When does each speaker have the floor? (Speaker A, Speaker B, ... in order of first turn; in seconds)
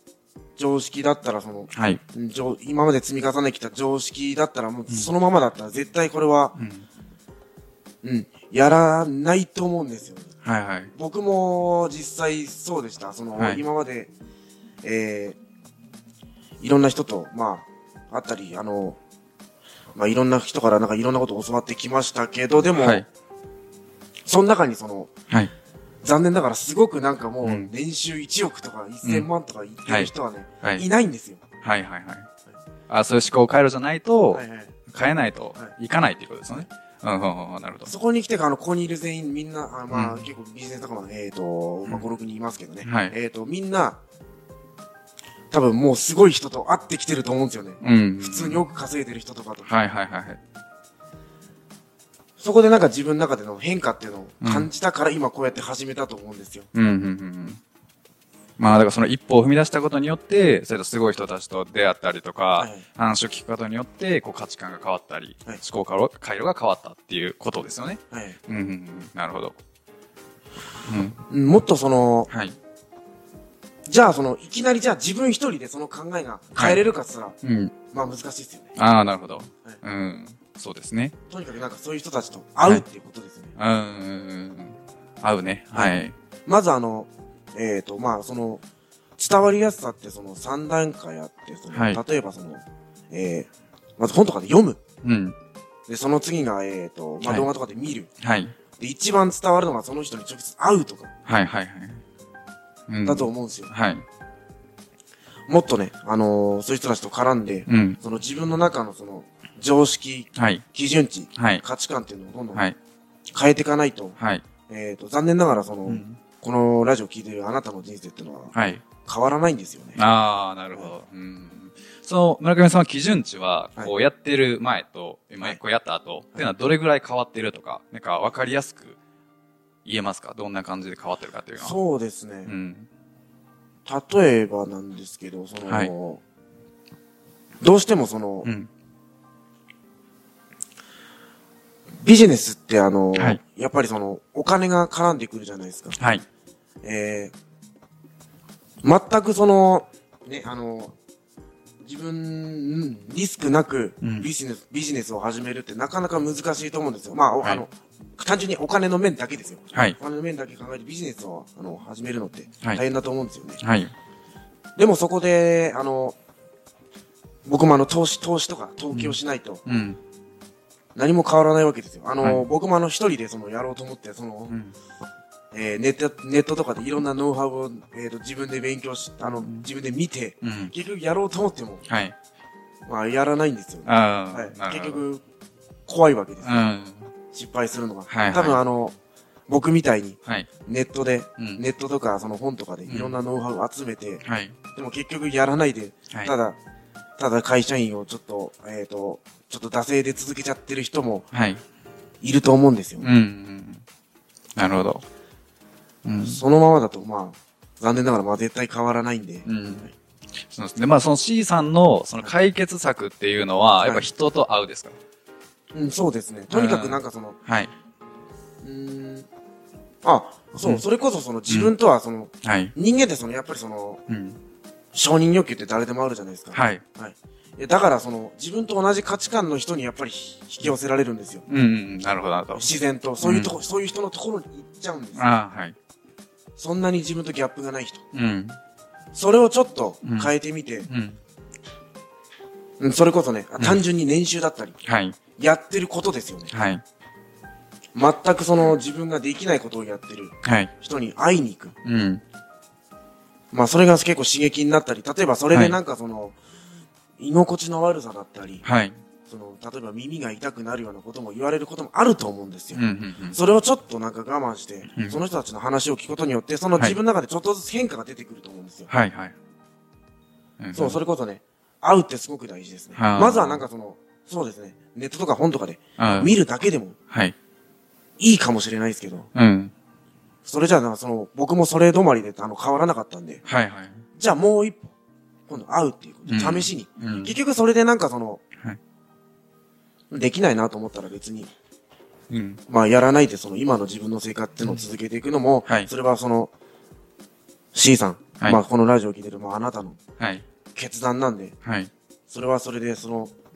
Speaker A: 0.6-6.6, 8.0-10.3, 10.9-14.1, 14.8-15.4, 16.6-19.0, 19.9-23.1, 24.3-25.1, 26.0-31.4, 34.3-34.8, 37.9-44.0, 45.5-49.7, 52.4-56.7, 62.6-62.8, 68.1-68.4, 71.3-72.3, 73.9-77.4, 77.9-78.8, 81.3-83.5, 85.7-88.6, 89.2-94.8, 95.9-98.1, 98.8-101.1, 103.0-103.7, 105.5-112.7, 113.3-118.5, 119.0-120.0, 131.6-132.5, 133.9-136.2, 137.6-138.5, 142.0-146.0, 146.8-147.3, 148.8-150.9, 151.8-163.6, 164.8-166.2, 167.4-169.6, 170.9-174.6, 175.5-181.9, 182.9-185.2, 185.9-186.7, 187.3-188.9, 189.5-196.6, 197.2-201.3, 202.2-203.1, 206.2-209.9, 215.7-217.4, 218.6-219.3, 220.0-224.0, 224.9-231.4, 232.5-235.3, 236.6-238.0, 239.1-240.9, 242.8-244.8, 245.4-246.5, 247.9-251.8, 253.5-256.4, 257.2-258.6, 259.3-262.8, 263.3-268.9, 270.8-277.0, 278.2-279.3, 280.4-283.4, 284.1-284.9, 285.5-288.4, 290.1-291.5, 292.7-296.5, 297.7-300.0, 300.7-301.6, 302.3-303.3
Speaker B: 1.7-2.0, 6.5-6.8, 10.4-10.9, 13.4-13.6, 22.7-23.1, 27.4-27.7, 29.0-29.3, 31.6-32.3, 32.9-37.9, 39.9-40.2, 42.8-43.1, 47.8-48.7, 49.7-50.4, 54.4-54.7, 56.7-57.6, 58.6-69.6, 70.9-71.2, 72.3-72.6, 76.5-76.8, 77.4-77.7, 78.8-81.2, 83.6-86.1, 91.7-92.0, 95.0-95.4, 97.2-97.5, 98.2-98.5, 101.3-102.0, 102.9-104.0, 107.7-108.0, 110.3-110.6, 111.4-111.6, 114.2-114.4, 115.9-116.2, 118.5-118.8, 120.0-129.0, 129.8-131.8, 132.5-132.9, 138.4-138.7, 143.2-143.4, 146.0-146.2, 154.0-154.3, 163.6-163.9, 168.9-170.0, 174.5-174.7, 180.4-180.7, 181.9-182.2, 183.9-185.0, 186.4-187.1, 188.1-188.6, 192.9-193.2, 194.2-194.6, 201.3-201.6, 203.0-203.8, 204.6-205.0, 206.0-206.4, 209.4-209.9, 210.5-215.0, 216.5-217.7, 222.4-222.7, 224.1-224.4, 226.5-226.8, 231.5-232.7, 233.2-233.5, 235.2-235.8, 238.1-238.6, 240.0-240.3, 240.9-241.2, 244.8-245.2, 246.5-246.8, 250.4-250.7, 251.8-252.2, 255.5-255.8, 258.6-259.0, 262.7-263.4, 264.9-265.2, 268.9-269.4, 270.6-271.0, 272.9-273.6, 276.0-276.4, 279.4-279.7, 283.4-284.0, 286.3-287.4, 292.3-292.6, 294.6-294.9, 300.2-300.4, 301.6-301.9